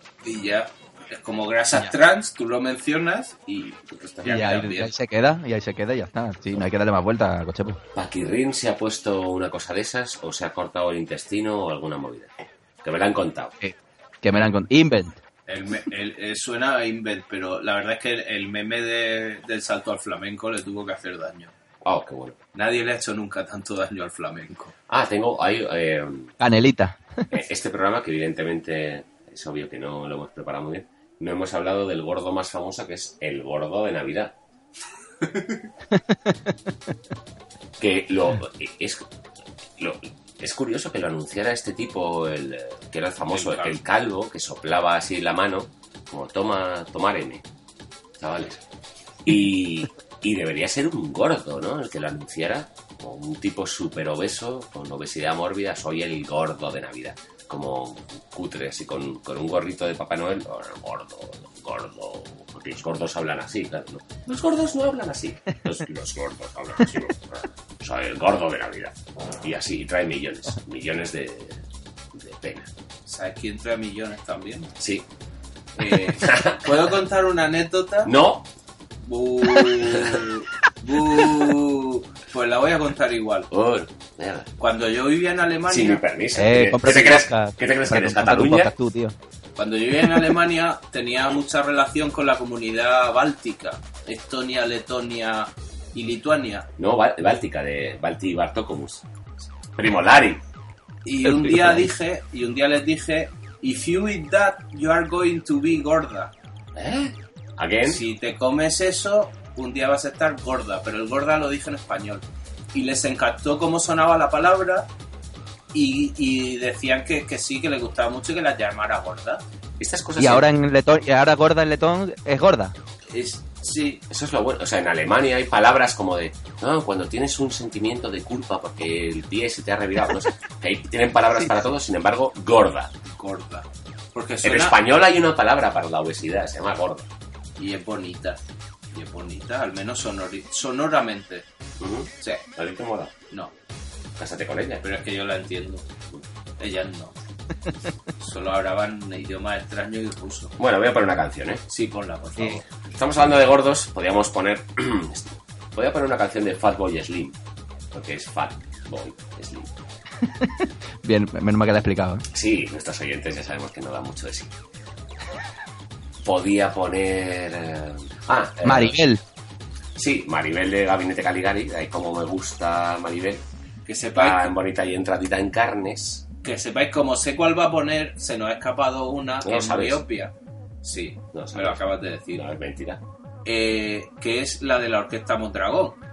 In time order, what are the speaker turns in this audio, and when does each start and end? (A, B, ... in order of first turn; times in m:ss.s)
0:00.2-0:04.9 A
0:04.2-0:07.8 B
0:07.9-0:13.5 C
0:13.6-0:15.2 B
0:15.5-0:21.5 A
0:21.8-0:22.4 C
0:22.5-0:24.7 A
0:24.9-0:26.3 C
0:26.4-0:27.2 B
0:27.3-0:34.4 C
0:35.3-0:35.5 A
0:37.8-0:39.0 C
0:39.8-0:47.4 C
0:43.3-0:43.8 A
0:48.2-0:48.6 C
0:49.2-1:11.6 C
1:12.1-1:12.7 C
1:13.1-1:14.7 A
1:14.8-1:15.0 C
1:15.8-1:18.1 A
1:15.8-1:16.7 C
1:18.0-1:18.5 C
1:19.0-1:23.5 A
1:23.5-1:24.5 C
1:24.6-1:26.0 A
1:25.7-1:28.7 C
1:26.3-1:29.1 B
1:29.6-1:36.7 A
1:36.8-1:39.0 C
1:39.8-1:40.4 C
1:41.0-1:46.3 A
1:41.2-1:41.9 B
1:46.7-1:48.0 C
1:47.8-1:54.9 A
1:55.7-1:59.4 A
1:59.8-2:00.5 C
2:00.2-2:02.7 B
2:03.1-2:04.0 A
2:04.1-2:12.9 C
2:13.1-2:14.8 A
2:14.4-2:17.1 C
2:17.6-2:18.4 A
2:18.9-2:21.4 A
2:21.8-2:23.1 C
2:24.2-2:24.8 C
2:24.8-2:25.8 A
2:26.6-2:27.1 A
2:28.2-2:30.6 A
2:30.6-2:31.7 C
2:31.7-2:32.6 A
2:32.9-2:37.4 C
2:37.9-2:39.7 C
2:40.4-2:42.2 B
2:42.3-2:44.5 C
2:46.2-2:49.0 C
2:48.6-2:49.2 B
2:50.0-2:53.4 C
2:53.8-2:54.5 A
2:54.1-2:56.2 C
2:56.4-3:02.4 A
2:59.4-3:00.0 C
3:01.3-3:03.0 C
3:03.4-3:06.0 A